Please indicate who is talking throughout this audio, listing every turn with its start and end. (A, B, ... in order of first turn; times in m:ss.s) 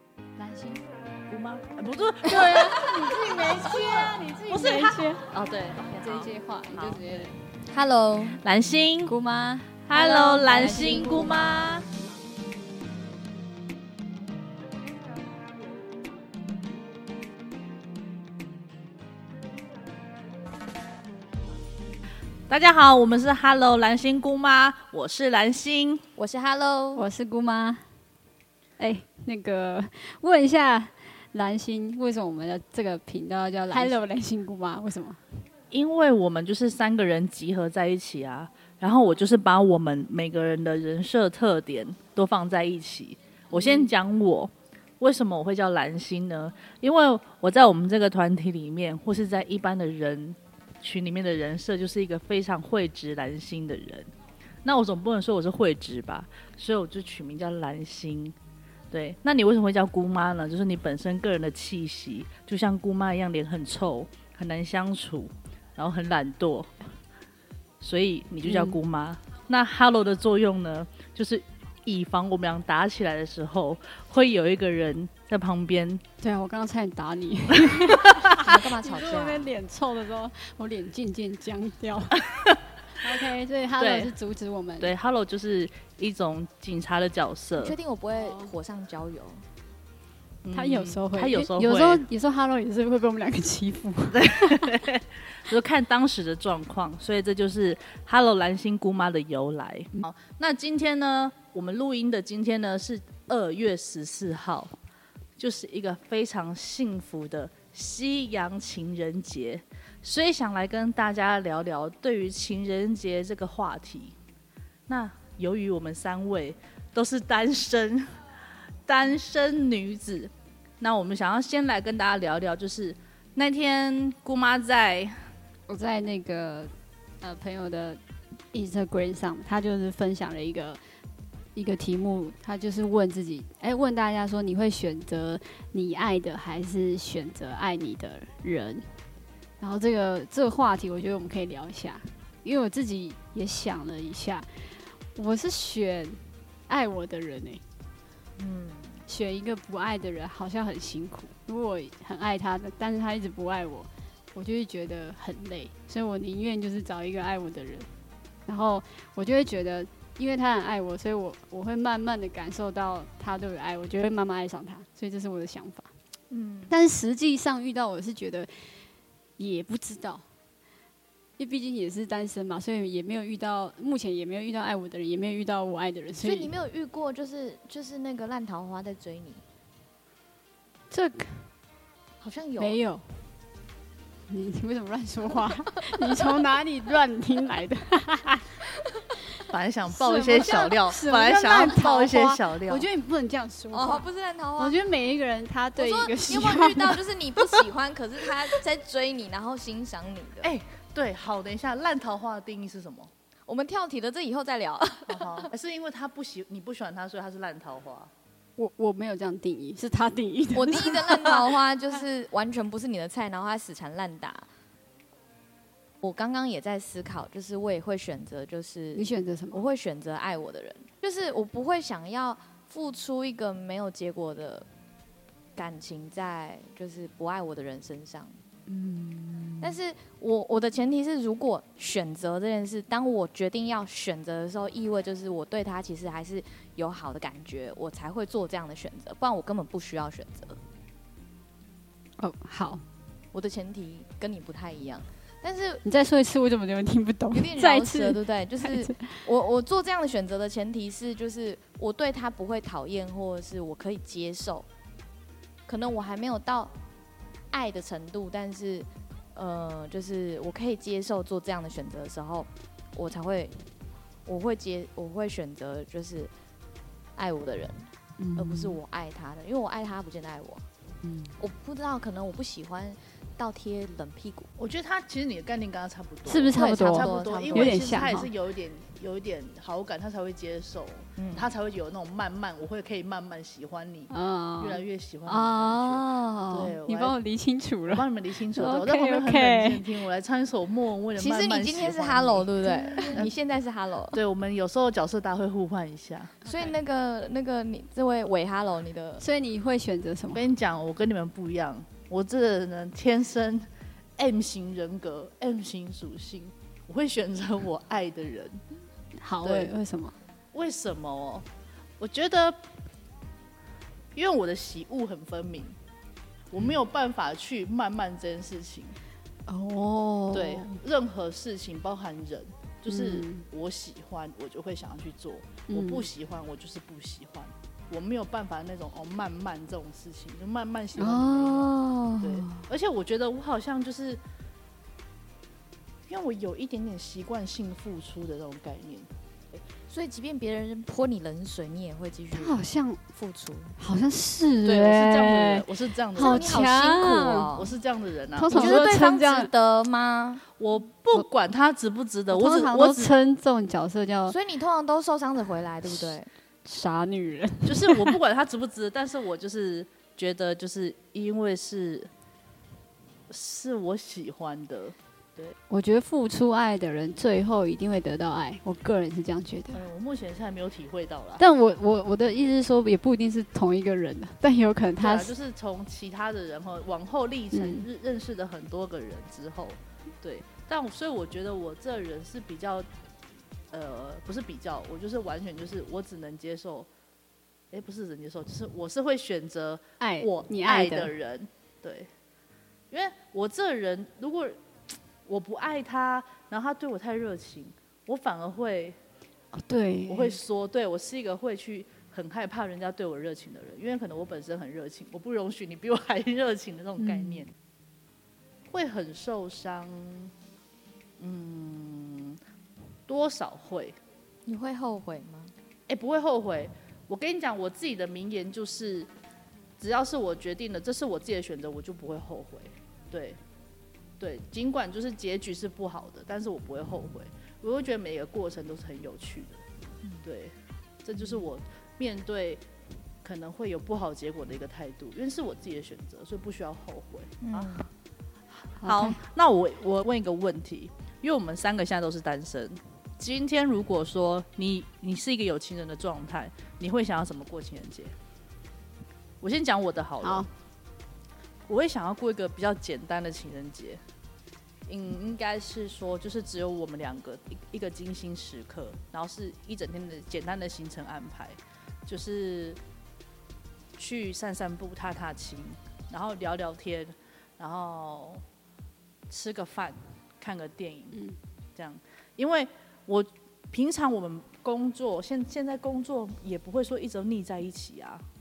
0:00.4-0:00.8 A
0:01.3-0:03.4 B
0:02.3-0:05.3 A
0:04.5-0:07.2 B
0:05.8-0:07.4 A
0:07.6-0:08.4 C
0:08.4-0:09.2 B
0:09.0-0:11.5 A
0:09.9-0:11.9 B
0:10.7-0:11.2 C
0:22.5-0:26.0 B
0:26.2-0:27.0 C
0:27.0-0:27.8 A
0:28.8-0:35.2 A
0:33.7-0:33.9 C
0:35.7-0:54.1 B
0:54.6-0:58.4 B
0:58.9-1:06.7 B
1:07.8-1:16.0 B
1:08.5-1:08.8 A
1:16.2-1:22.2 A
1:18.3-1:19.5 C
1:22.9-1:24.9 A
1:23.8-1:24.1 B
1:24.8-1:27.8 B
1:27.6-1:29.4 C
1:28.1-1:28.5 A
1:30.4-1:32.1 B
1:30.5-1:34.7 A
1:34.1-1:44.8 B
1:45.4-1:54.2 B
1:54.9-1:58.1 B
1:58.9-2:05.2 B
2:05.7-2:08.0 A
2:08.5-2:10.8 A
2:11.6-2:18.9 A
2:19.6-2:27.6 A
2:28.4-2:29.0 B
2:29.1-2:37.9 A
2:38.5-2:45.9 A
2:46.3-2:46.8 B
2:46.7-2:48.8 A
2:49.4-2:50.2 A
2:51.4-2:56.5 A
2:56.2-2:59.4 C
3:00.9-3:01.5 A
3:02.2-3:02.8 C
3:02.6-3:03.2 A
3:04.3-3:08.4 A
3:09.5-3:12.9 B
3:09.9-3:17.0 A
3:13.7-3:14.8 C
3:15.8-3:20.5 C
3:20.4-3:23.1 B
3:23.5-3:25.5 C
3:25.1-3:28.1 B
3:28.6-3:31.3 A
3:30.6-3:34.5 C
3:36.0-3:44.7 C
3:39.0-3:39.6 A
3:45.6-3:48.4 C
3:48.7-3:49.8 A
3:49.6-4:00.6 C
4:02.2-4:02.8 A
4:03.3-4:05.8 C
4:05.8-4:09.2 A
4:07.3-4:14.7 C
4:15.7-4:16.7 C
4:17.5-4:23.6 C
4:24.3-4:26.3 C
4:27.2-4:30.6 C
4:28.2-4:28.8 A
4:31.3-4:34.5 C
4:34.6-4:47.2 B
4:36.3-4:38.3 A
4:36.5-4:38.1 C
4:41.2-4:41.5 C
4:44.1-4:49.8 A
4:47.9-4:53.3 B
4:51.2-4:54.2 C
4:52.6-4:53.3 A
4:54.1-4:56.4 B
4:56.4-4:59.2 C
4:59.2-5:00.4 A
5:00.3-5:08.6 B
5:09.2-5:10.2 A
5:09.4-5:09.7 B
5:10.5-5:11.4 B
5:12.0-5:12.6 B
5:14.1-5:15.8 B
5:16.5-5:19.0 B
5:19.5-5:20.8 A
5:20.3-5:34.2 B
5:22.9-5:23.4 A
5:25.7-5:26.1 A
5:31.0-5:32.6 A
5:36.1-5:39.1 B
5:39.9-5:43.8 C
5:42.3-5:43.0 A
5:43.8-5:47.5 A
5:44.6-5:46.6 B
5:46.2-5:47.8 C
5:47.5-5:48.8 B
5:48.4-5:49.5 A
5:48.5-5:50.4 C
5:50.6-5:53.1 B
5:52.3-5:54.4 A
5:54.3-5:56.3 C
5:56.6-5:58.2 A
5:57.6-6:02.1 B
6:03.3-6:05.6 B
6:05.7-6:09.8 A
6:09.7-6:11.4 B
6:11.4-6:15.3 A
6:15.0-6:22.9 B
6:17.5-6:17.9 A
6:23.7-6:26.9 B
6:27.7-6:32.1 B
6:30.0-6:31.1 A
6:32.9-6:34.6 B
6:35.3-6:39.0 B
6:39.5-6:40.4 A
6:40.1-6:47.5 B
6:47.0-6:47.4 A
6:48.7-6:50.3 B
6:51.2-6:52.4 B
6:53.1-6:54.0 B
6:54.5-6:55.5 C
6:55.9-6:59.1 B
6:59.8-7:03.4 B
7:04.2-7:09.6 B
7:10.2-7:12.6 B
7:11.2-7:11.4 C
7:13.2-7:17.8 B
7:17.4-7:17.9 C
7:18.6-7:28.1 B
7:18.8-7:19.2 A
7:29.4-7:30.5 B
7:30.2-7:30.5 A
7:31.7-7:34.0 B
7:34.9-7:42.8 B
7:44.0-7:48.4 B
7:49.3-7:51.2 B
7:51.8-7:58.2 B